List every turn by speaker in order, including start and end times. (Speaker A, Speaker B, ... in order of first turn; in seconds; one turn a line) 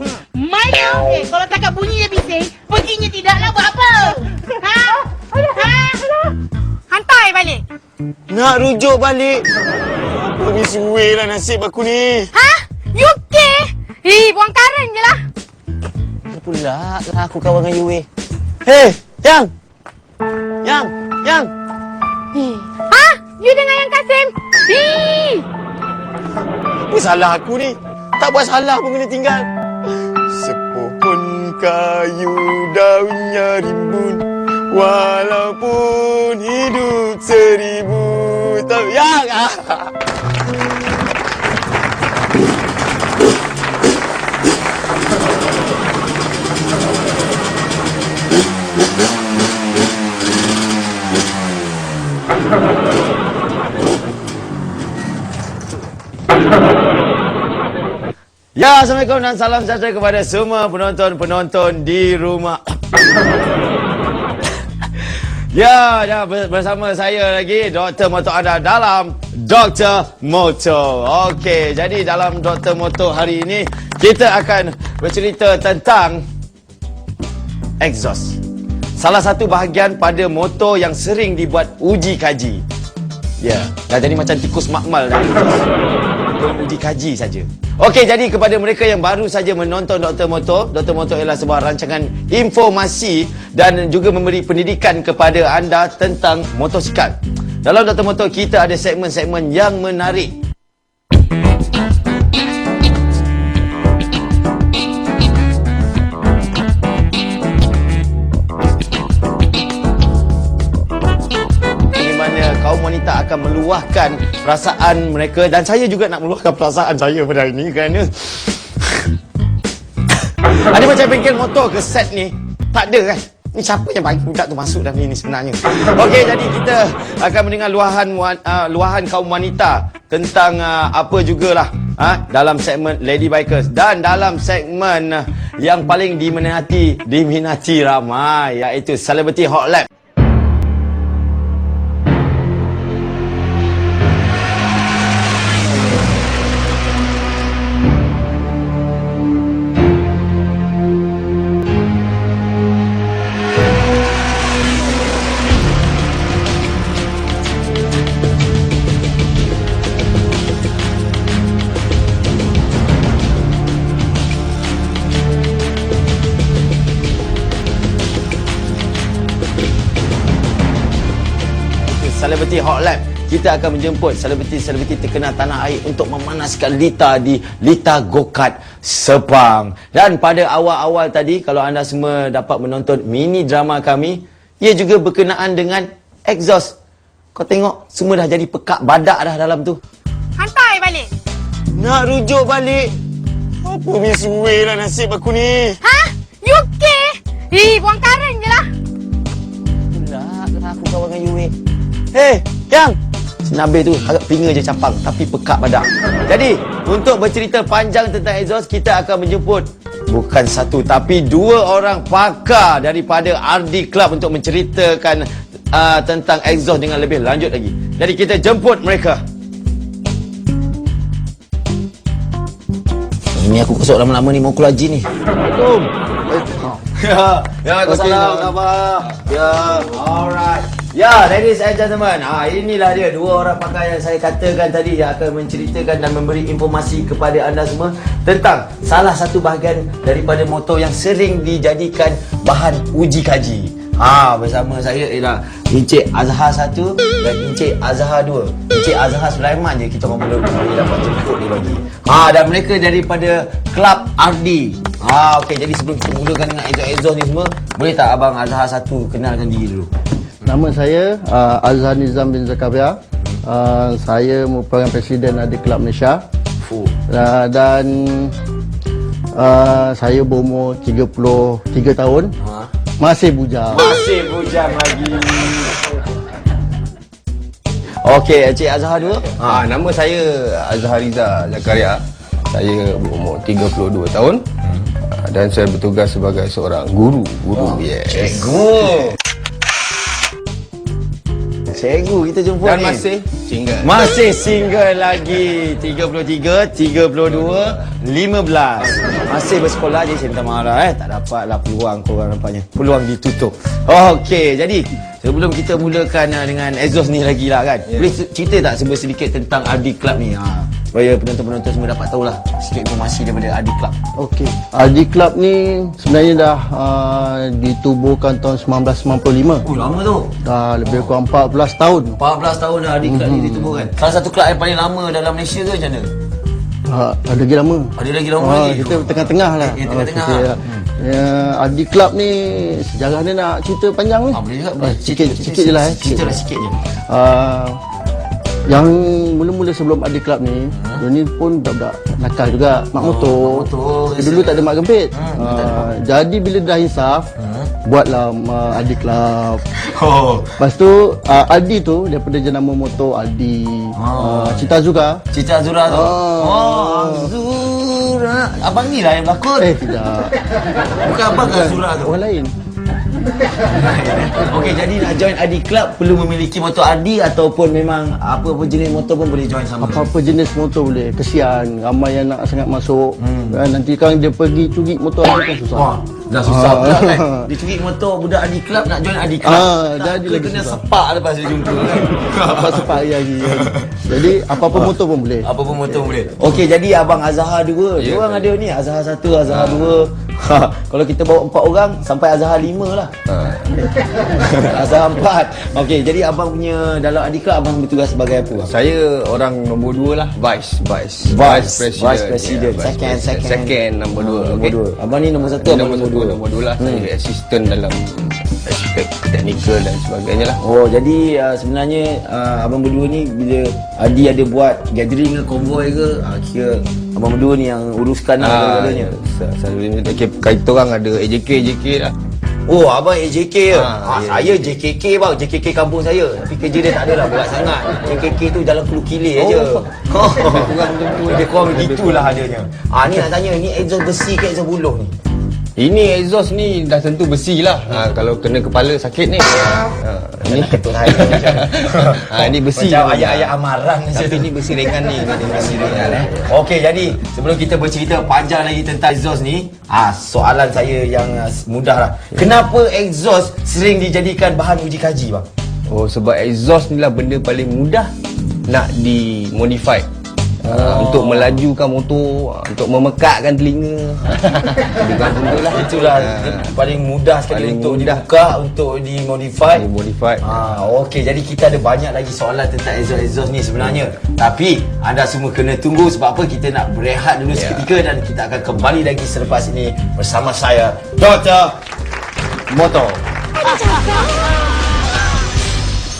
Speaker A: 0.3-5.9
Speaker B: 5.3-6.3
Speaker B: 6.9-7.6
Speaker C: 8.3-9.5
Speaker C: 10.0-12.3
Speaker B: 12.3-15.2
Speaker C: 16.3-18.1
Speaker C: 18.6-19.5
Speaker C: 20.6-21.5
Speaker B: 22.3-25.4
Speaker C: 26.9-29.5
Speaker C: 30.1-39.9
Speaker C: 58.5-62.8
Speaker C: 65.0-76.2
Speaker C: 77.8-78.4
Speaker C: 79.0-82.6
Speaker C: 83.4-85.7
Speaker C: 86.3-100.3
Speaker C: 111.9-119.1
Speaker C: 120.4-139.9
Speaker C: 171.8-186.7
Speaker C: 187.3-189.8
Speaker B: 190.4-191.1
Speaker C: 191.8-192.9
Speaker C: 193.6-195.8
Speaker B: 195.8-198.7
Speaker C: 199.9-201.5
Speaker C: 202.1-219.2
Speaker C: 223.3-225.1
Speaker D: 225.4-226.8
Speaker C: 226.9-259.9
Speaker D: 227.8-228.5
Speaker D: 260.4-266.2
Speaker C: 266.6-266.9
Speaker D: 267.1-268.3
Speaker D: 269.3-272.3
Speaker C: 272.4-272.7
Speaker D: 273.0-273.9
Speaker C: 273.7-275.7
Speaker C: 278.0-279.6
Speaker E: 279.4-284.4
Speaker E: 285.0-289.1
Speaker C: 287.6-289.2
Speaker C: 291.7-293.1
Speaker E: 292.6-293.9
Speaker C: 293.8-313.9
Speaker E: 297.3-297.8
Speaker E: 298.8-299.3
Speaker D: 314.2-319.7
Speaker C: 319.6-320.3
Speaker D: 320.4-322.2
Speaker C: 320.8-321.1
Speaker C: 322.2-326.1
Speaker D: 323.0-323.9
Speaker D: 326.9-336.4
Speaker C: 328.0-330.9
Speaker C: 334.3-336.8
Speaker D: 337.1-337.8
Speaker D: 338.7-347.3
Speaker C: 340.7-341.0
Speaker C: 342.9-345.9
Speaker C: 347.4-347.7
Speaker D: 347.8-349.6
Speaker C: 349.7-350.6
Speaker D: 350.6-355.2
Speaker C: 353.9-354.7
Speaker C: 355.3-359.8
Speaker D: 355.9-357.3
Speaker D: 359.6-360.4
Speaker C: 361.0-362.1
Speaker D: 361.2-362.5
Speaker C: 363.5-370.1
Speaker D: 369.8-375.9
Speaker C: 373.2-373.6
Speaker C: 375.7-384.1
Speaker D: 376.4-377.5
Speaker D: 379.4-380.8
Speaker D: 382.1-385.5
Speaker C: 385.4-393.1
Speaker E: 388.0-388.5
Speaker E: 389.5-389.9
Speaker E: 393.3-393.9
Speaker C: 394.3-398.7
Speaker E: 398.6-404.8
Speaker C: 401.2-407.1
Speaker E: 405.4-410.6
Speaker C: 410.6-419.1
Speaker E: 418.4-422.1
Speaker C: 422.7-430.8
Speaker E: 423.7-424.7
Speaker E: 429.3-432.5
Speaker C: 431.3-435.1
Speaker E: 435.8-443.5
Speaker C: 440.4-455.5
Speaker E: 444.1-446.5
Speaker E: 455.9-458.1
Speaker E: 458.6-460.1
Speaker E: 460.6-466.7
Speaker C: 460.7-461.6
Speaker C: 465.5-469.9
Speaker E: 467.5-468.2
Speaker E: 469.7-470.5
Speaker C: 470.4-481.8
Speaker E: 477.5-477.9
Speaker C: 482.7-483.2